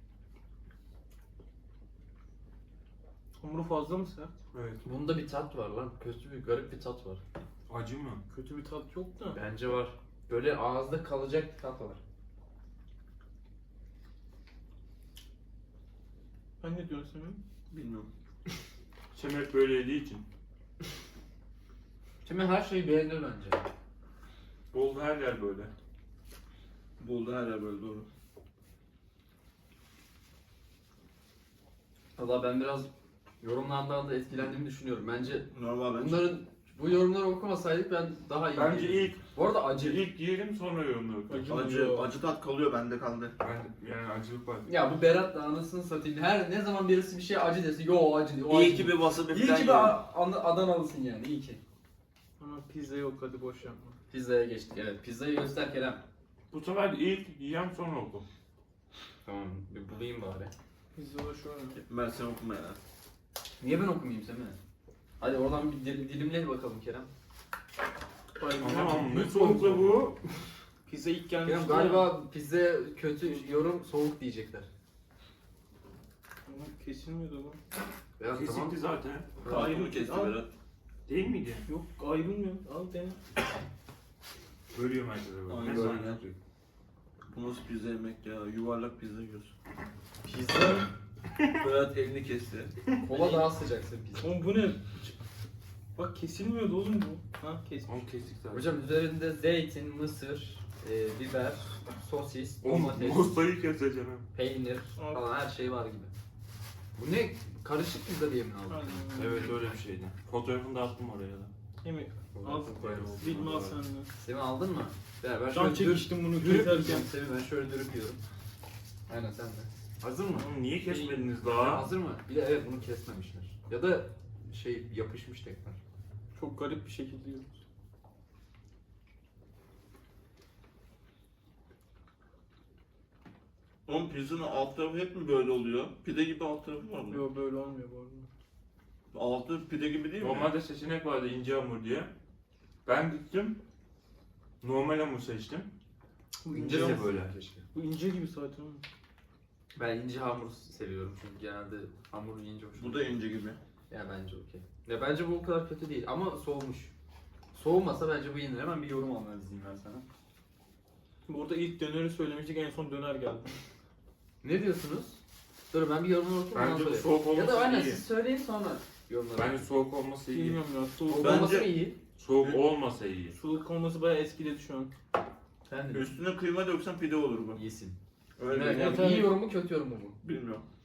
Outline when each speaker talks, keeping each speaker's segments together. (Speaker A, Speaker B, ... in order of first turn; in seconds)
Speaker A: 3.4-4.3, 8.3-9.4, 16.6-17.4, 41.3-42.1, 52.4-54.0, 60.9-61.8, 68.4-70.0, 70.8-72.1, 76.5-77.6, 79.5-80.4, 81.7-83.2, 93.1-93.5, 94.2-95.1, 96.0-98.0, 105.0-105.2, 108.7-109.5, 111.8-114.1, 115.5-117.1, 126.3-127.6, 137.1-138.3, 147.7-148.8, 161.3-163.5, 170.2-171.4, 173.3-174.9, 178.7-179.3
Speaker B: 4.5-4.8, 7.7-8.2, 19.1-20.2, 24.7-25.7, 38.5-41.5, 43.4-44.7, 56.5-58.2, 68.6-70.2, 78.3-79.5, 81.0-81.6, 84.7-86.4, 97.9-98.7, 102.6-104.3, 109.1-111.5, 112.7-113.8, 120.3-121.9, 140.2-142.1, 142.8-143.6, 144.6-145.7, 146.5-147.3, 166.5-168.0, 169.3-170.6, 172.2-173.3
Speaker C: 4.8-7.2, 9.3-12.0, 22.2-23.6, 32.1-32.9, 33.4-40.0, 44.6-51.6, 54.1-56.0, 59.2-60.5, 63.6-64.6, 65.2-67.1, 69.3-69.8, 71.4-74.7, 78.2-78.8, 90.2-90.9, 93.0-94.3, 98.5-103.4, 104.3-106.1, 107.0-109.0, 112.3-113.3, 114.2-118.2, 119.1-125.8, 146.4-147.7, 149.7-153.1, 153.9-156.9, 157.5-160.0, 164.4-165.2, 165.7-169.7, 171.1-172.0, 175.7-176.1, 177.5-178.0, 178.5-180.2
Speaker D: 17.7-18.1, 27.0-28.1, 35.5-36.4, 41.5-43.3, 48.5-50.0, 61.8-62.8, 79.4-80.5, 85.5-86.2, 87.3-89.5, 91.6-92.7, 133.8-137.2, 139.1-140.5, 146.6-147.0, 152.7-153.6, 171.1-171.7, 175.9-177.6, 178.4-179.3, 180.2-180.7